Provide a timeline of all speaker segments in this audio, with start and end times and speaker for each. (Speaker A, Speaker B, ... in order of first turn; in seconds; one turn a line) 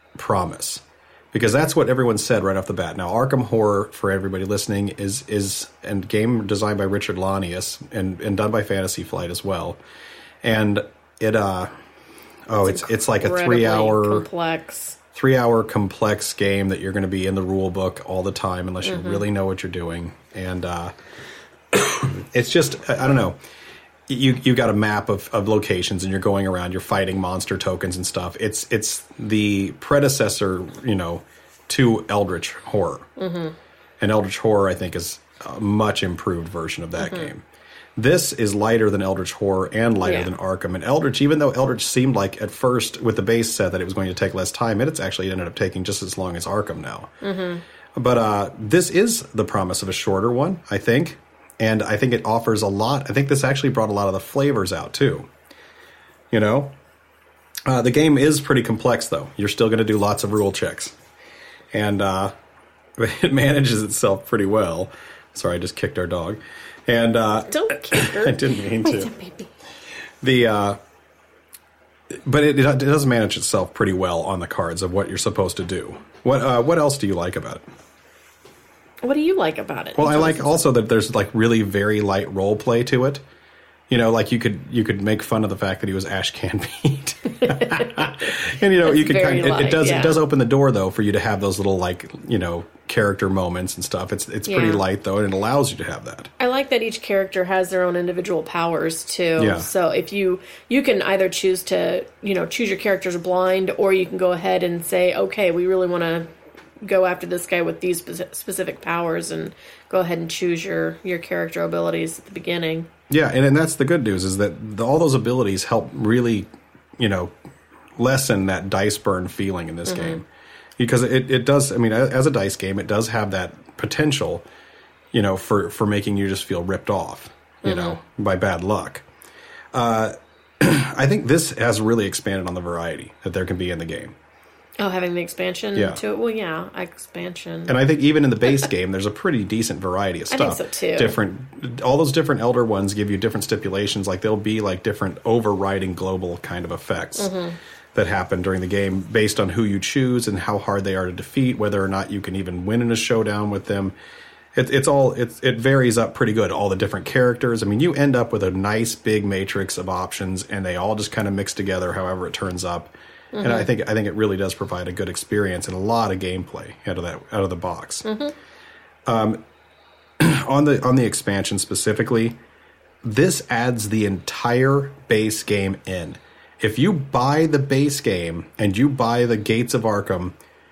Speaker A: 0.1-9.8
Speaker A: 10.4-11.7
Speaker A: 12.5-14.3
Speaker B: 12.6-15.0
Speaker A: 15.1-20.9
Speaker B: 18.8-19.2
Speaker A: 21.7-23.4
Speaker A: 24.1-33.1
Speaker B: 33.2-33.5
Speaker A: 34.0-37.4
Speaker B: 37.0-37.3
Speaker A: 38.0-47.1
Speaker B: 40.0-40.3
Speaker B: 47.2-47.6
Speaker A: 47.9-55.3
Speaker A: 56.3-56.7
Speaker A: 57.6-60.9
Speaker A: 61.7-62.3
Speaker A: 63.0-69.1
Speaker B: 67.5-69.5
Speaker A: 70.2-70.8
Speaker A: 72.1-77.6
Speaker B: 79.0-80.5
Speaker A: 79.9-83.2
Speaker A: 83.9-96.3
Speaker B: 87.3-90.2
Speaker B: 94.5-94.8
Speaker B: 96.4-106.3
Speaker A: 99.4-99.7
Speaker B: 106.8-112.9
Speaker A: 113.1-117.3
Speaker A: 118.0-120.2
Speaker B: 119.9-120.2
Speaker A: 120.8-124.4
Speaker A: 125.1-129.0
Speaker B: 127.6-128.0
Speaker A: 129.7-134.2
Speaker B: 134.8-137.7
Speaker A: 135.7-136.0
Speaker A: 137.7-147.3
Speaker B: 140.3-141.2
Speaker B: 147.2-147.6
Speaker A: 147.9-153.9
Speaker A: 154.5-168.1
Speaker B: 163.3-163.7
Speaker B: 168.0-168.3
Speaker A: 169.1-169.4
Speaker A: 170.2-172.4
Speaker A: 173.0-180.3